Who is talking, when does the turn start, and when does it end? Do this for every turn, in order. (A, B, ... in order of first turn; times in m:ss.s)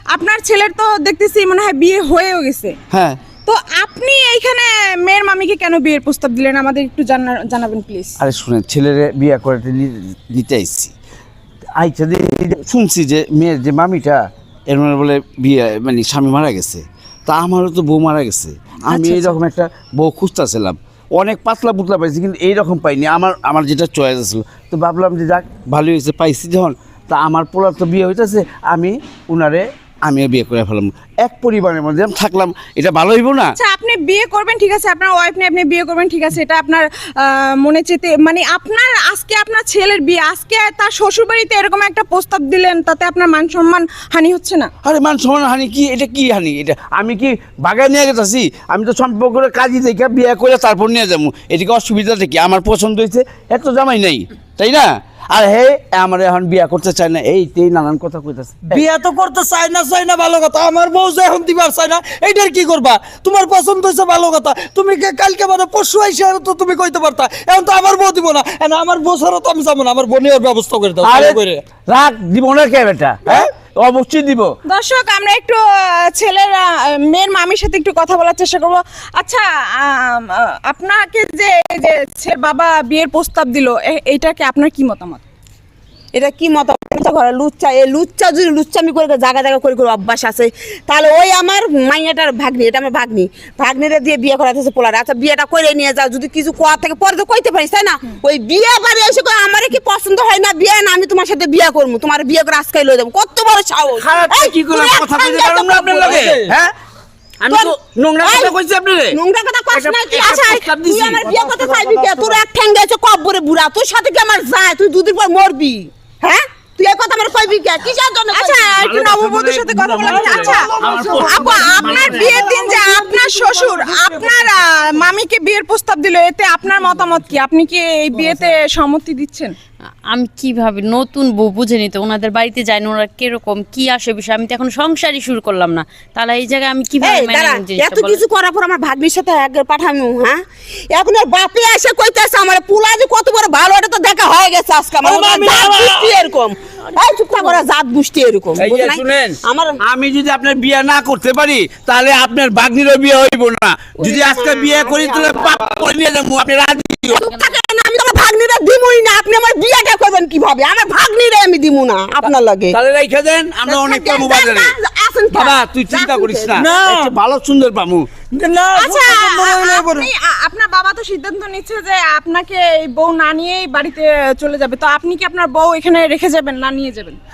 0:00.1-0:02.8 A
0:02.9-0:03.2 B
0:03.4-0:08.2 A
0:08.2-0:10.9 B
0:11.8-0:33.6 B
0:33.6-0:44.7 A
0:44.8-0:58.8 B
0:58.6-1:11.6 C
1:11.0-1:14.5 B
1:14.6-1:25.2 A
1:26.1-1:46.4 D
1:44.0-1:46.7 B
1:45.9-1:46.5 C
1:47.4-1:49.2 B
1:47.5-1:48.5 D
1:49.1-1:58.8 D
1:49.7-1:51.3 B
1:51.3-1:51.8 C
1:58.3-2:09.5 A
1:58.8-2:02.4 B
2:00.0-2:04.8 C
2:10.1-2:18.2 E
2:17.0-2:20.4 D
2:20.9-2:29.8 D
2:25.0-2:26.0 C
2:28.6-2:37.3 B
2:34.0-2:35.6 D
2:37.1-2:42.8 D
2:42.7-2:44.7 B
2:43.7-2:46.6 D
2:45.3-2:48.1 B
2:46.5-2:47.1 C
2:48.3-2:50.1 C
2:48.8-2:57.2 A